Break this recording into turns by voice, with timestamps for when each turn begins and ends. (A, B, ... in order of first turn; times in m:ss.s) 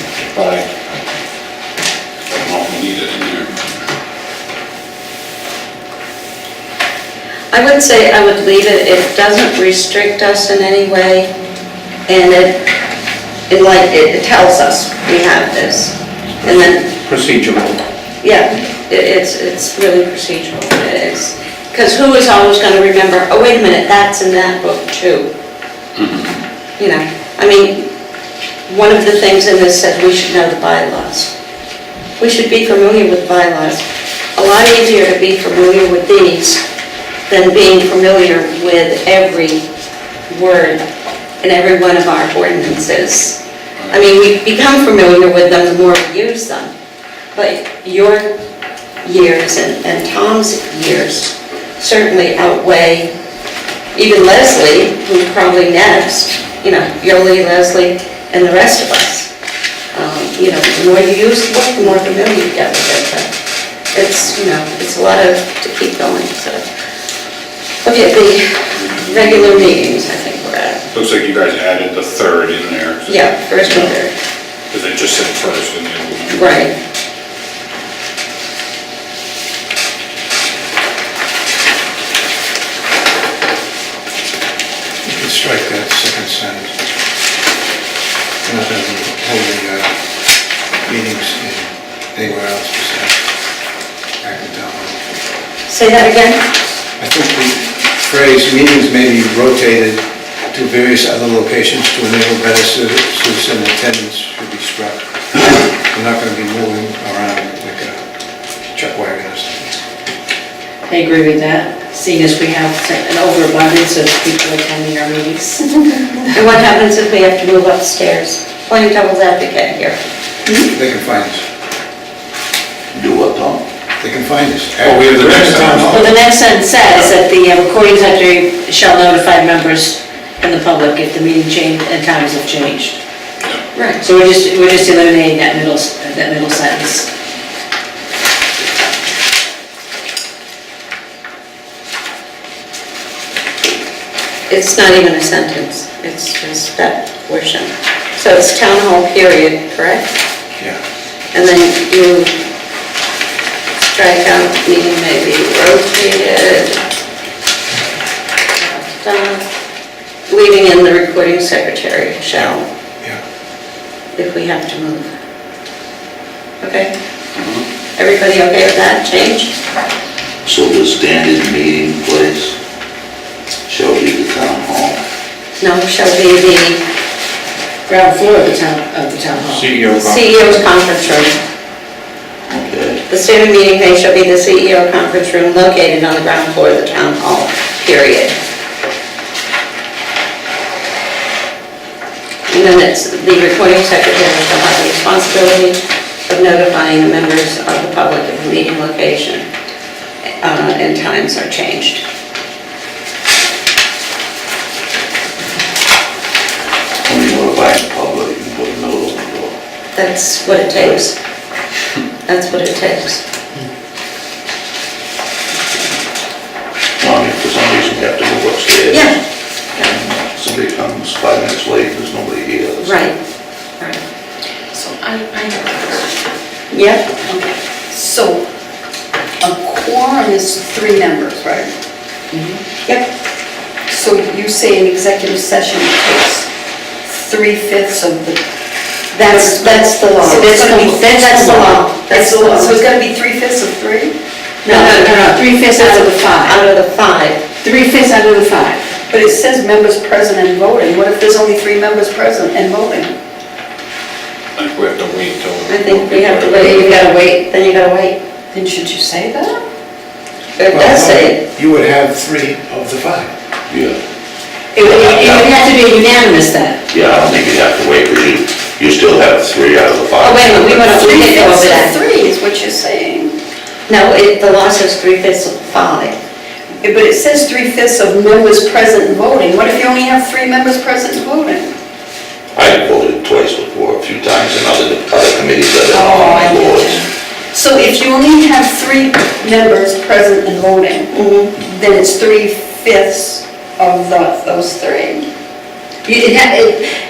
0:00.3-0:00.7 A
0:02.3-0:03.5 A
0:07.5-0:11.3 B
0:12.1-0:12.6 B
0:13.5-0:16.9 B
0:17.1-0:17.6 A
0:18.2-0:25.3 B
0:26.8-0:27.9 B
0:28.7-0:31.3 B
0:32.2-0:36.6 B
0:37.3-0:39.6 B
0:40.3-0:40.8 B
0:41.4-0:46.7 B
0:47.3-0:48.4 B
0:49.0-0:53.1 B
0:53.9-0:59.3 B
0:59.9-1:03.3 B
1:03.9-1:06.6 B
1:07.8-1:10.8 B
1:10.9-1:13.9 A
1:13.1-1:14.1 B
1:14.7-1:16.6 A
1:16.3-1:16.7 B
1:25.0-1:26.8 C
1:28.4-1:29.9 C
1:30.8-1:33.2 C
1:34.2-1:35.0 C
1:35.7-1:36.5 B
1:37.0-1:48.0 C
1:48.7-1:49.8 C
1:50.9-1:56.3 D
1:56.3-2:00.0 B
2:00.6-2:01.4 C
2:02.9-2:03.6 E
2:04.0-2:06.1 C
2:04.8-2:06.0 A
2:05.9-2:13.0 D
2:13.8-2:14.0 B
2:14.0-2:17.1 D
2:24.5-2:30.2 B
2:31.3-2:32.4 B
2:33.9-2:36.8 B
2:38.6-2:39.5 B
2:40.3-2:42.7 B
2:44.2-2:45.1 B
2:46.6-2:46.9 B
2:48.0-2:49.5 B
2:50.4-2:52.6 E
2:53.7-2:55.0 E
2:55.6-2:56.8 B
2:57.9-2:59.7 D
2:59.5-3:00.3 A
3:00.0-3:01.4 B
3:02.5-3:03.0 E
3:03.1-3:08.4 B
3:12.5-3:19.5 B
3:20.4-3:22.0 B
3:27.0-3:29.6 E
3:30.0-3:31.2 B
3:32.3-3:33.2 B
3:37.0-3:39.1 E
3:38.9-3:39.2 B
3:39.8-3:43.0 E
3:42.8-3:43.2 B
3:44.7-3:46.2 F
3:46.7-3:47.1 B
3:47.3-3:48.4 F
3:49.4-3:51.7 F
3:53.9-3:56.5 F
3:57.0-3:58.4 F
3:59.1-4:02.8 B
3:59.2-4:01.0 F
4:00.9-4:01.8 D
4:02.1-4:04.1 F
4:04.7-4:07.4 B
4:04.9-4:06.5 D
4:07.6-4:08.9 D
4:09.1-4:13.1 F
4:14.6-4:17.0 A
4:15.7-4:18.2 B
4:18.5-4:19.6 F
4:20.6-4:21.4 B
4:20.7-4:23.3 C
4:23.7-4:24.0 E
4:24.8-4:25.6 E
4:24.8-4:26.8 D
4:26.9-4:31.0 E
4:30.2-4:32.0 B
4:31.0-4:33.3 F
4:33.9-4:36.1 B
4:36.8-4:41.7 F
4:42.5-4:47.0 E
4:45.9-4:47.0 F
4:47.5-4:55.3 F
4:51.1-4:51.5 B
4:56.0-4:56.9 D